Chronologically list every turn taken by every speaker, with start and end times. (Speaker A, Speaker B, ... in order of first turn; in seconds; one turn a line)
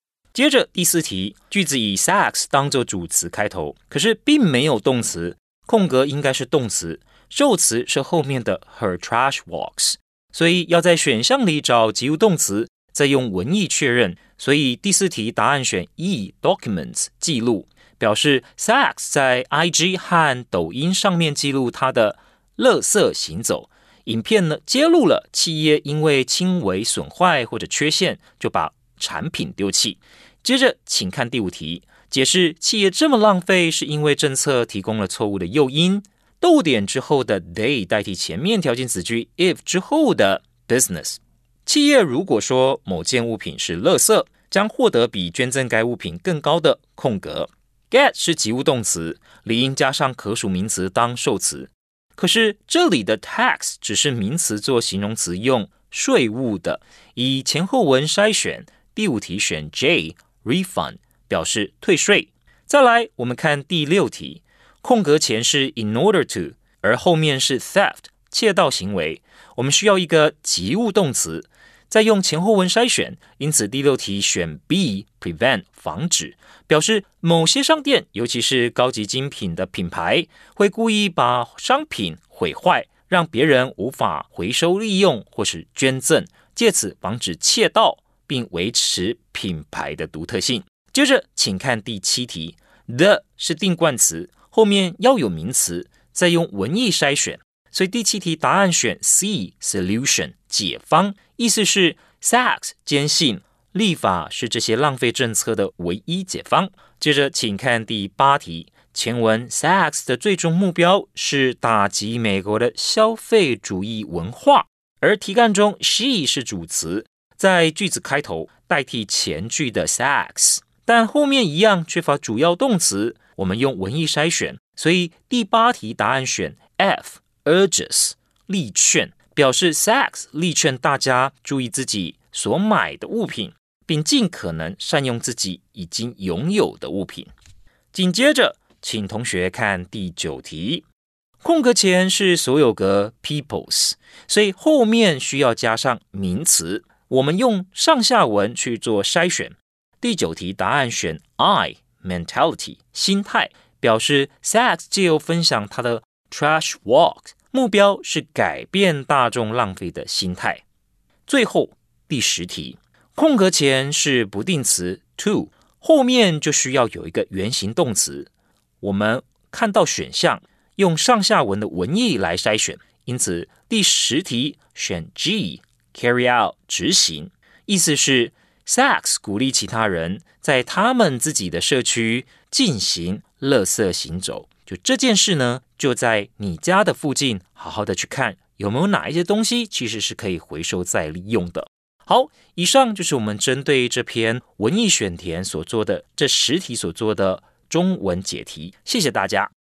Speaker A: 0.3-137.3
Speaker A: 137.9-140.8
Speaker A: 141.4-160.6
Speaker A: 161.3-168.3
Speaker A: 168.8-199.5